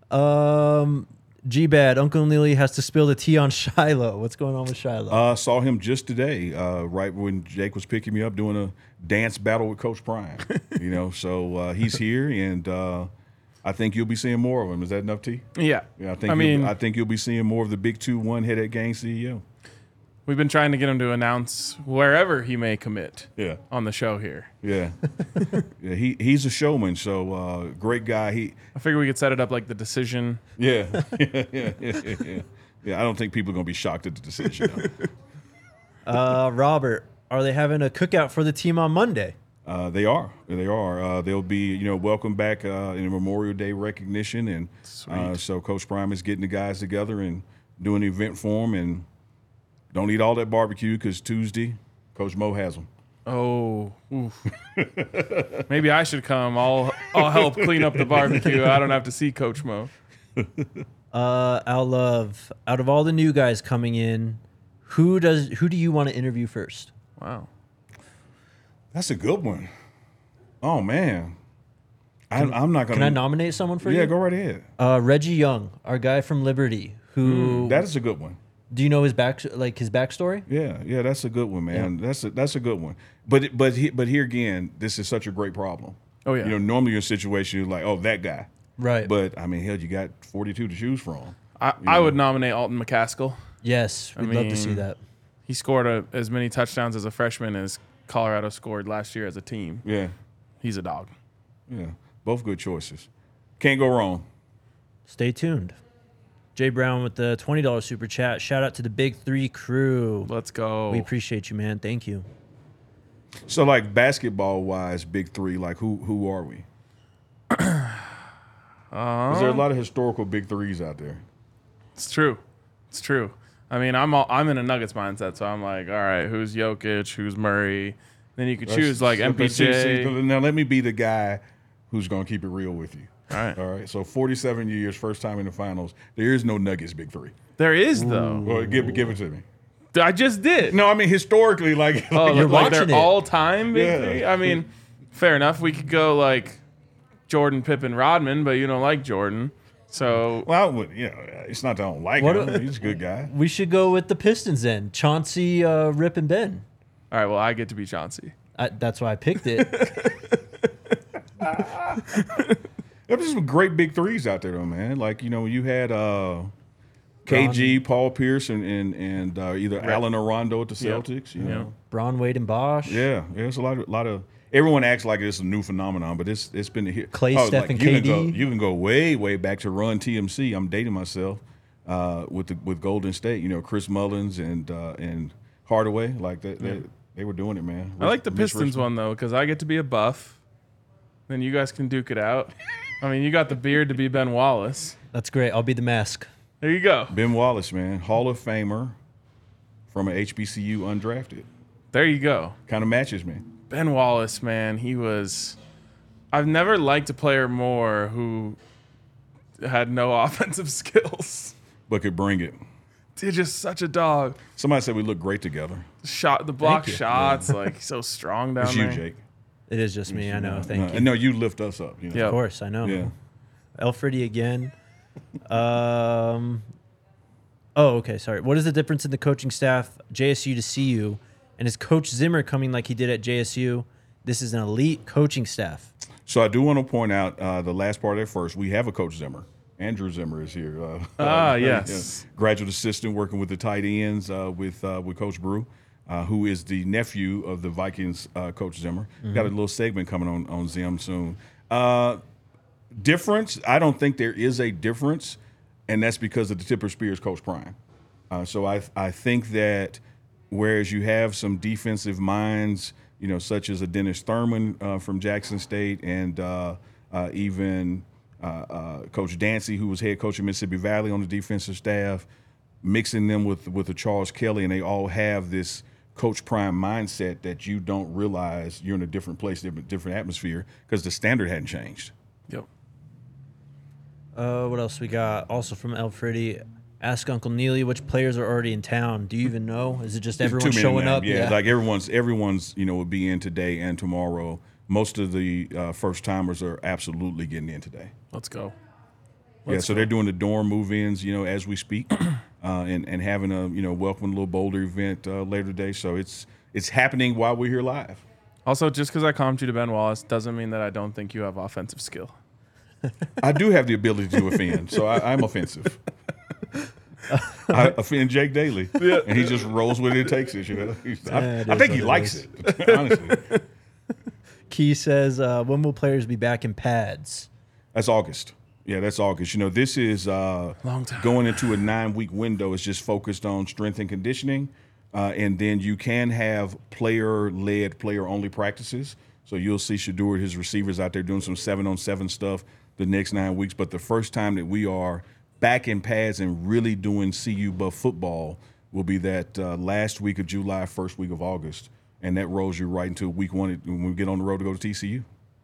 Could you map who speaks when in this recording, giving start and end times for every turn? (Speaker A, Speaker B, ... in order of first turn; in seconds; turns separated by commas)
Speaker A: 0.1-5.2, Speaker B: 5.1-13.1, Speaker B: 13.6-15.4, Speaker C: 15.6-16.7, Speaker B: 16.0-19.4, Speaker C: 20.2-24.5, Speaker B: 23.4-23.6, Speaker B: 24.6-25.0, Speaker B: 25.5-28.6, Speaker C: 28.7-30.4, Speaker B: 30.6-34.9, Speaker A: 36.0-39.3, Speaker B: 39.6-49.0, Speaker C: 44.9-45.4, Speaker B: 49.9-52.9, Speaker C: 53.2-54.5, Speaker B: 54.7-55.6, Speaker C: 55.7-59.9, Speaker B: 57.1-58.9, Speaker B: 60.4-60.7, Speaker A: 61.1-66.9, Speaker C: 67.2-67.5, Speaker B: 68.9-69.7, Speaker B: 70.6-71.3, Speaker B: 72.3-73.2, Speaker A: 72.3-74.1, Speaker B: 73.8-74.7, Speaker A: 74.8-77.8, Speaker B: 77.3-78.4, Speaker A: 78.7-80.5, Speaker B: 80.5-88.5, Speaker C: 86.2-86.5, Speaker A: 88.8-89.1, Speaker B: 89.0-92.2, Speaker C: 91.6-93.4, Speaker A: 93.6-95.0, Speaker C: 94.2-94.8, Speaker C: 95.5-99.8, Speaker B: 99.8-100.1, Speaker C: 100.6-101.1, Speaker B: 101.7-103.1, Speaker B: 103.6-104.2, Speaker A: 105.1-105.8, Speaker A: 106.5-110.3, Speaker C: 110.2-111.1, Speaker A: 110.9-112.2, Speaker B: 113.5-116.7, Speaker C: 117.5-118.0, Speaker C: 118.9-119.6, Speaker B: 119.3-121.2, Speaker C: 122.0-122.4, Speaker C: 122.9-130.1, Speaker B: 128.7-137.3, Speaker C: 133.3-133.6, Speaker C: 137.6-138.5, Speaker A: 137.9-139.1, Speaker B: 138.4-139.4, Speaker C: 139.9-140.8, Speaker B: 140.7-142.8, Speaker C: 142.1-146.6, Speaker A: 142.3-143.1, Speaker B: 143.7-144.6, Speaker C: 147.3-150.5, Speaker B: 150.3-153.3, Speaker A: 152.2-156.6, Speaker C: 157.1-158.3, Speaker A: 158.6-159.9, Speaker C: 159.5-160.7, Speaker B: 161.4-162.0, Speaker C: 161.4-162.6, Speaker B: 163.1-166.5, Speaker B: 167.2-171.7, Speaker A: 167.3-167.8, Speaker C: 170.8-171.7, Speaker A: 171.8-173.1, Speaker B: 172.8-188.9, Speaker A: 177.1-178.4, Speaker C: 188.0-190.4, Speaker C: 191.3-195.0, Speaker A: 195.1-196.3, Speaker C: 196.6-197.2, Speaker B: 197.1-199.0, Speaker B: 199.9-201.5, Speaker C: 201.9-202.6, Speaker B: 202.7-203.4, Speaker C: 203.7-205.6, Speaker C: 206.3-208.6, Speaker C: 209.6-211.5, Speaker B: 211.9-212.6, Speaker C: 213.2-214.4, Speaker B: 214.6-215.9, Speaker C: 216.0-219.0, Speaker A: 216.6-217.0, Speaker B: 217.1-217.5, Speaker B: 218.6-219.2, Speaker A: 219.7-221.1, Speaker B: 220.1-223.1, Speaker A: 222.2-223.1, Speaker A: 223.8-224.7, Speaker A: 225.5-226.7, Speaker A: 227.8-235.9, Speaker B: 236.2-252.2, Speaker C: 241.2-242.2, Speaker A: 249.2-249.5, Speaker B: 252.9-257.8, Speaker B: 258.3-272.2, Speaker B: 272.8-282.1, Speaker A: 284.4-291.6, Speaker B: 290.4-298.1, Speaker C: 298.3-298.7, Speaker C: 299.6-300.1, Speaker B: 299.7-308.2, Speaker C: 308.6-312.3, Speaker B: 313.4-316.0, Speaker A: 317.3-317.9, Speaker B: 317.7-323.4, Speaker C: 319.0-319.7, Speaker A: 321.2-322.4, Speaker C: 322.7-323.6, Speaker A: 324.7-327.5, Speaker B: 327.9-355.3, Speaker C: 330.8-331.7